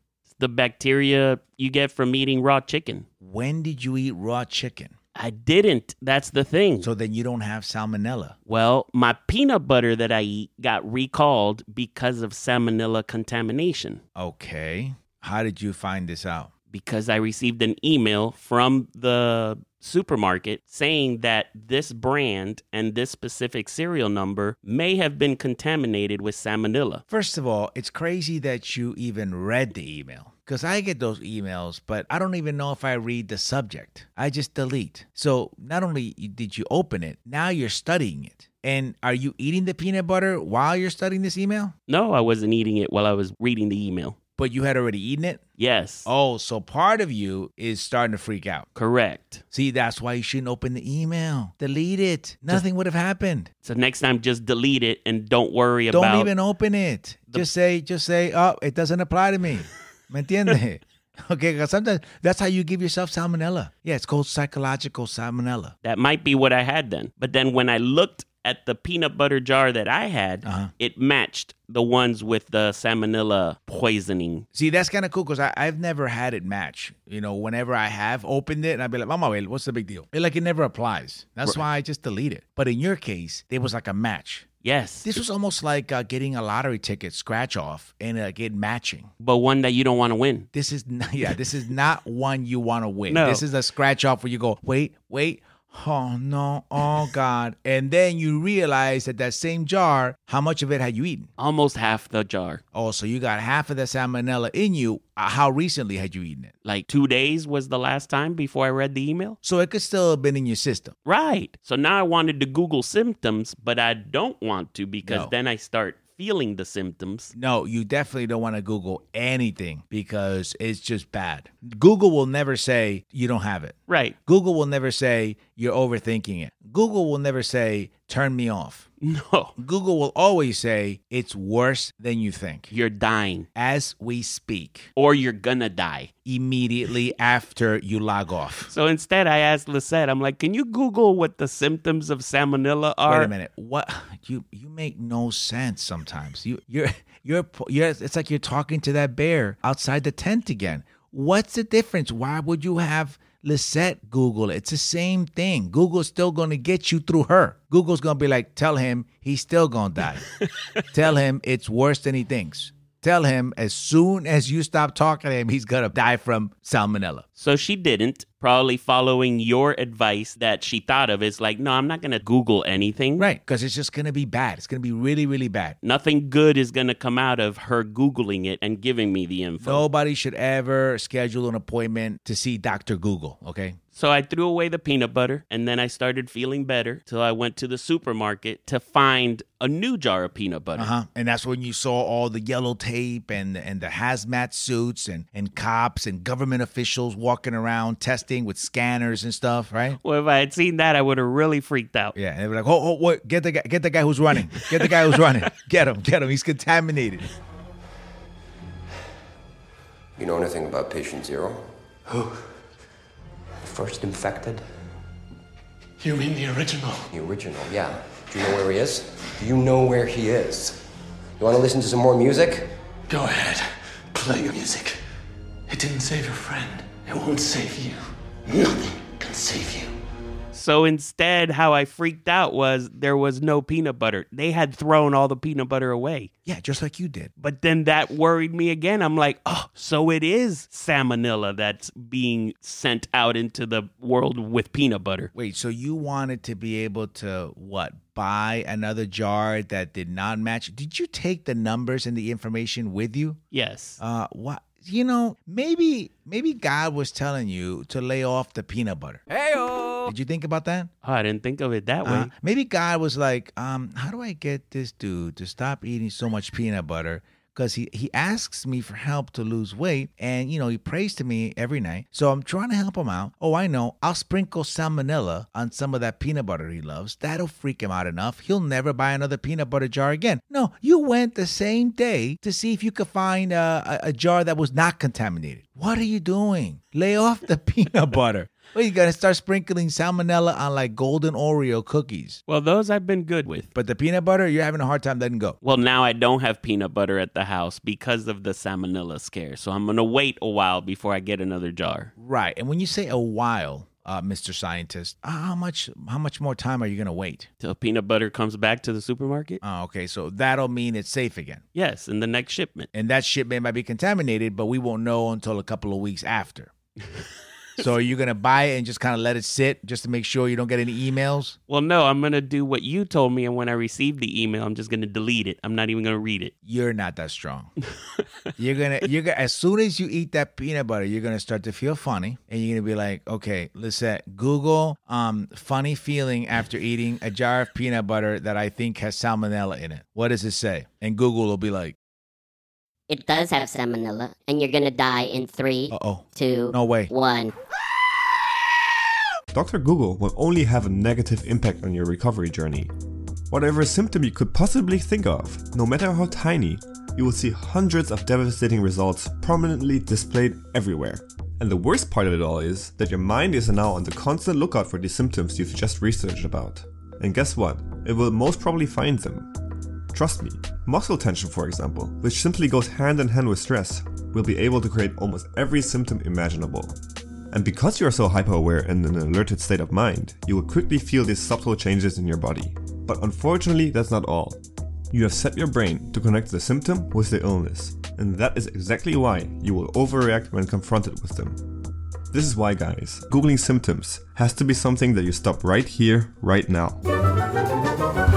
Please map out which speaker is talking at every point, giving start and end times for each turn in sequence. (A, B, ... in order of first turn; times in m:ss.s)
0:00.3-0:03.0 A
0:03.2-0:04.9 B
0:05.1-0:06.9 A
0:06.8-0:08.4 B
0:08.5-0:14.0 A
0:14.2-0:16.5 B
0:16.7-0:27.0 A
0:27.1-0:41.7 B
0:41.9-0:44.2 A
0:44.4-0:45.4 B
0:45.6-0:46.1 A
0:46.0-0:48.7 B
0:48.7-0:49.4 A
0:49.5-0:53.5 B
0:53.6-0:56.3 A
0:55.9-1:05.7 B
1:05.8-1:14.4 A
1:10.4-1:10.7 B
1:14.5-1:24.5 B
1:24.6-1:25.1 A
1:25.0-1:29.1 B
1:29.2-1:30.5 A
1:30.5-1:41.3 B
1:33.1-1:33.4 A
1:41.4-1:42.6 A
1:42.7-1:46.5 B
1:46.6-1:49.4 A
1:49.4-1:50.9 B
1:51.0-1:57.3 A
1:55.0-1:55.3 B
1:57.3-2:08.9 B
2:03.9-2:04.2 A
2:09.0-2:09.5 A
2:09.6-2:12.7 B
2:12.7-2:13.5 A
2:13.5-2:14.9 B
2:15.0-2:16.1 A
2:16.2-2:18.7 B
2:18.7-2:23.3 A
2:23.0-2:40.3 B
2:40.4-2:40.8 A
2:40.9-2:47.2 B
2:47.4-2:53.2 A
2:53.2-2:55.8 B
2:55.8-2:59.8 A
2:59.6-3:03.8 B
3:03.9-3:10.9 A
3:10.8-3:20.0 B
3:20.0-3:22.1 A
3:22.1-3:27.3 B
3:24.5-3:25.1 A
3:30.2-3:31.6 C
3:33.6-3:34.6 C
3:36.0-3:37.1 D
3:37.1-3:40.8 C
3:41.4-3:42.7 C
3:43.1-3:45.0 D
3:45.7-3:49.9 D
3:50.5-3:56.3 A
3:56.4-3:57.3 B
3:57.4-4:05.3 A
4:05.3-4:13.4 B
4:13.5-4:14.0 A
4:14.0-4:19.3 B
4:20.0-4:20.9 B
4:21.0-4:22.3 A
4:22.0-4:52.4 B
4:52.5-4:53.7 A
4:53.7-4:55.6 B
4:55.6-5:02.1 A
5:02.2-5:07.5 B
5:07.6-5:09.6 A
5:09.6-5:11.6 B
5:11.7-5:12.9 A
5:12.9-5:16.7 B
5:17.8-5:21.6 B
5:21.7-5:26.5 A
5:26.6-5:27.7 B
5:28.6-5:41.9 B
5:43.1-5:47.5 E
5:45.9-5:47.1 B
5:49.5-5:52.9 F
5:53.5-6:09.5 F
6:10.1-6:17.0 F
6:17.5-6:24.6 F
6:25.1-6:37.0 F